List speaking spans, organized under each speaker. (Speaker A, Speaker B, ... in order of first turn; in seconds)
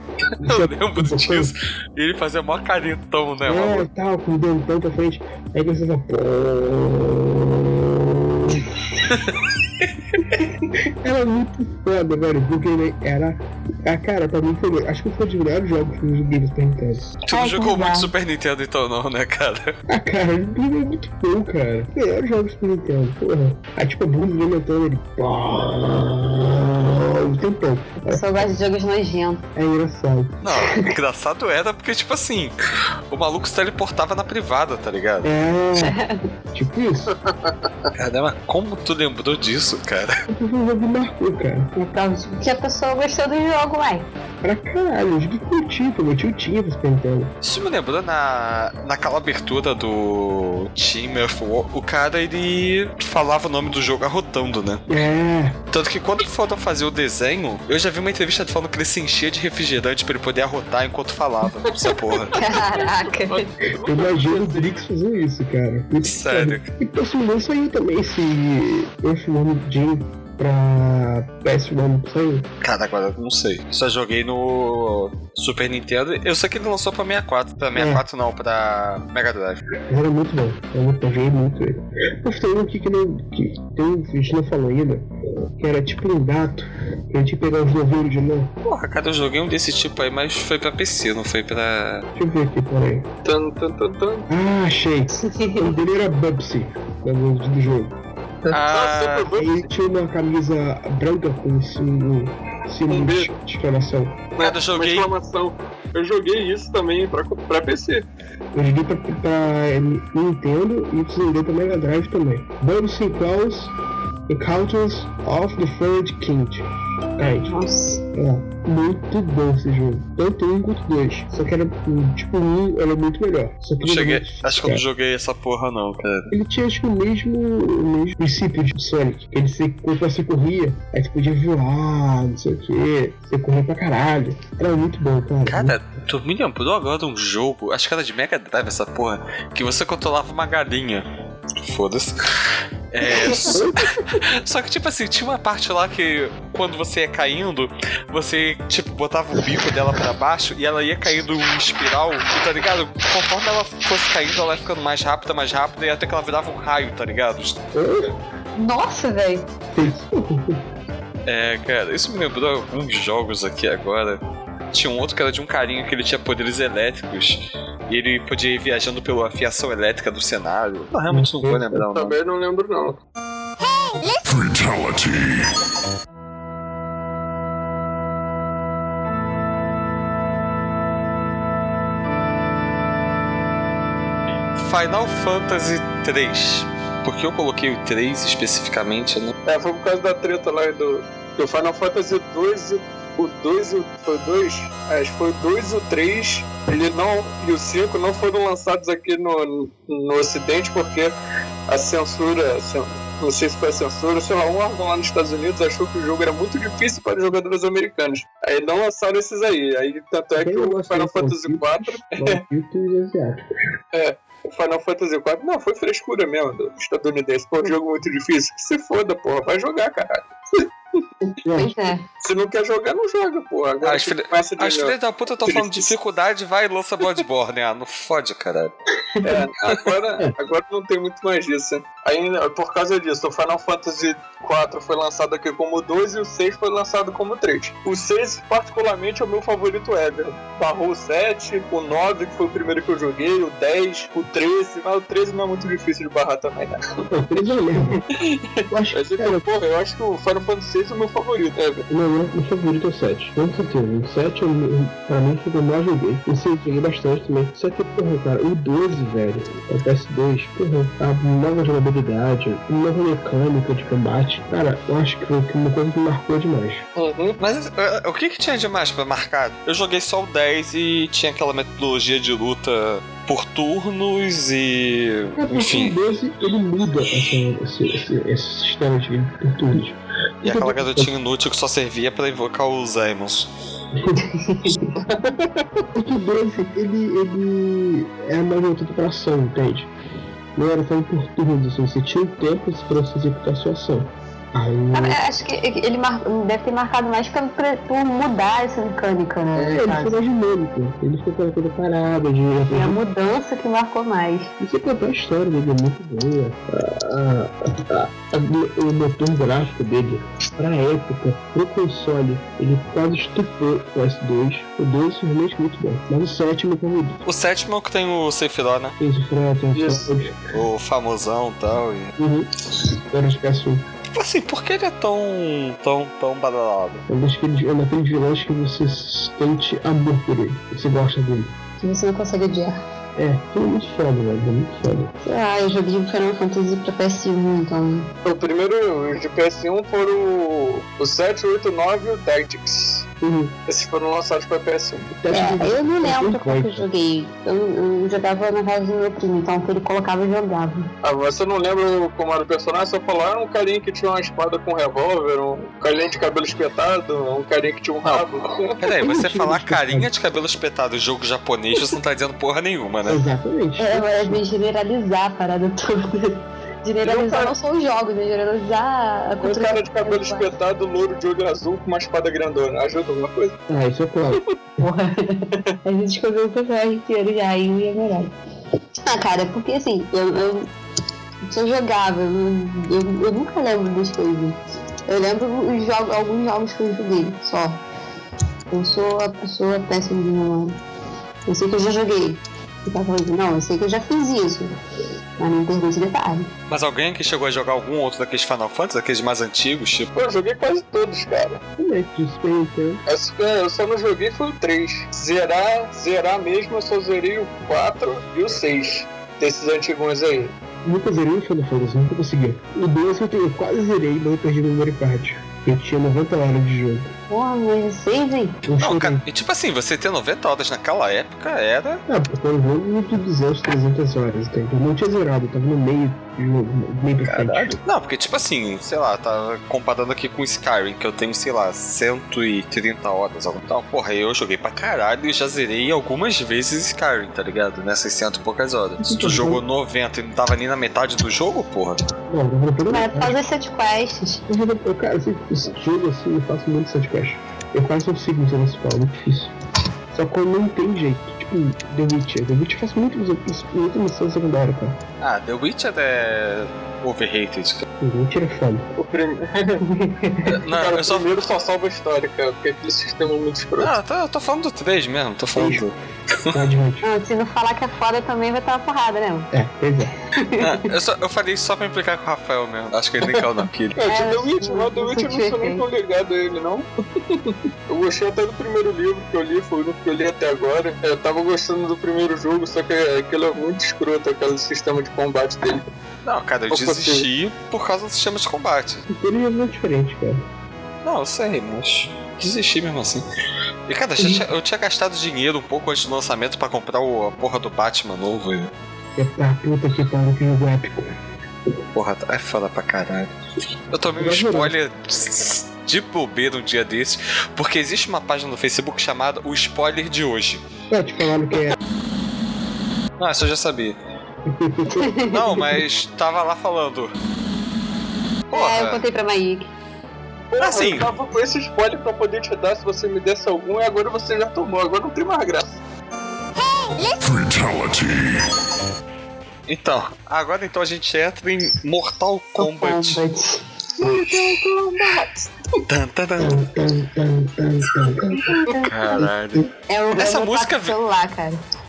Speaker A: 0.4-3.9, 9.1-9.4, 17.3-19.8, 30.4-32.5, 33.1-35.3, 37.9-40.2, 47.4-54.8, 55.7-62.4, 66.0-66.7, 72.6-79.6, 88.7-92.0, 98.5-99.3, 104.4-105.1, 123.8-126.3, 135.4-141.1, 141.6-157.6, 161.2-164.2, 164.7-172.2, 184.5-189.3, 223.8-228.7, 267.4-275.9, 280.4-283.5, 317.2-318.9, 320.5-322.1, 324.1-327.0, 358.8-363.2, 396.7-400.1, 418.8-422.0, 427.2-442.0, 455.2-457.9, 460.4-461.3, 463.8-466.6, 470.6-474.0, 486.2-489.0, 491.0-493.2, 493.9-498.7, 501.9-503.3, 503.9-510.6, 513.2-514.0, 515.3-517.1, 518.5-519.0, 520.6-521.1, 529.7-533.2, 535.9-536.6, 538.8-540.9
Speaker B: 0.4-1.5, 3.4-8.8, 10.8-17.1, 19.9-28.5, 29.5-30.4, 35.2-36.0, 36.5-37.1, 40.3-41.7, 44.4-47.3, 54.9-55.6, 63.8-72.5, 77.7-78.0, 79.9-88.5, 92.2-93.1, 94.3-98.0, 99.3-104.2, 108.5-113.7, 114.3-117.6, 118.1-124.8, 126.3-135.7, 143.2-144.2, 157.7-158.1, 159.7-160.6, 171.1-171.8, 210.3-213.4, 221.4-221.8, 247.1-248.0, 248.7-249.4, 251.9-266.8, 275.4-281.1, 283.9-284.3, 285.9-289.9, 290.6-295.2, 299.5-303.0, 304.6-317.2, 319.0-320.4, 322.2-322.5, 323.1-323.9, 327.1-331.6, 333.1-335.1, 343.2-343.5, 345.1-346.9, 359.0-360.1, 363.0-364.4, 373.7-374.8, 401.8-403.0, 410.8-417.1, 418.6-419.2, 422.1-427.8, 439.0-439.6, 442.3-443.4, 444.5-449.5, 450.1-455.0, 458.0-458.9, 465.6-465.8, 466.5-467.1, 469.5-470.1, 489.1-490.4, 499.1-501.1, 504.2-504.7, 510.9-511.8, 514.5-515.1, 536.4-538.5
Speaker C: 17.3-18.1, 28.1-29.4, 30.6-30.9, 35.8-36.3, 41.8-44.1, 62.3-63.5, 95.2-95.7, 117.5-118.0, 158.6-159.5, 221.2-222.0, 284.2-284.9, 294.9-300.1, 302.7-304.5, 331.8-332.8, 335.2-338.1, 345.3-350.9, 363.8-370.5, 374.8-378.3, 379.0-380.7, 381.4-387.8, 388.7-390.8, 391.4-394.7, 395.4-396.5, 417.3-418.6, 442.9-444.4, 459.8-460.5, 467.0-469.5, 470.2-470.9, 474.0-475.8, 514.9-515.7, 518.5-519.7, 532.6-533.6, 538.5-539.3, 539.9-541.6
Speaker D: 37.2-37.5, 62.3-64.8, 93.2-94.3, 98.5-99.7, 102.9-103.3, 104.4-108.1, 171.9-173.0, 189.4-201.2, 201.7-212.4, 213.9-220.7, 222.2-224.9, 225.4-225.9, 229.2-246.8, 248.2-251.8, 266.9-267.4, 284.9-285.9, 319.7-320.1, 338.2-343.1, 343.7-345.1, 351.0-358.8, 367.0-367.5, 369.4-373.6, 400.1-401.6, 403.1-410.5, 458.9-459.8, 460.4-463.9, 473.9-485.9, 486.7-487.2, 520.5-525.8, 534.0-535.5
Speaker E: 174.2-175.5, 527.0-528.5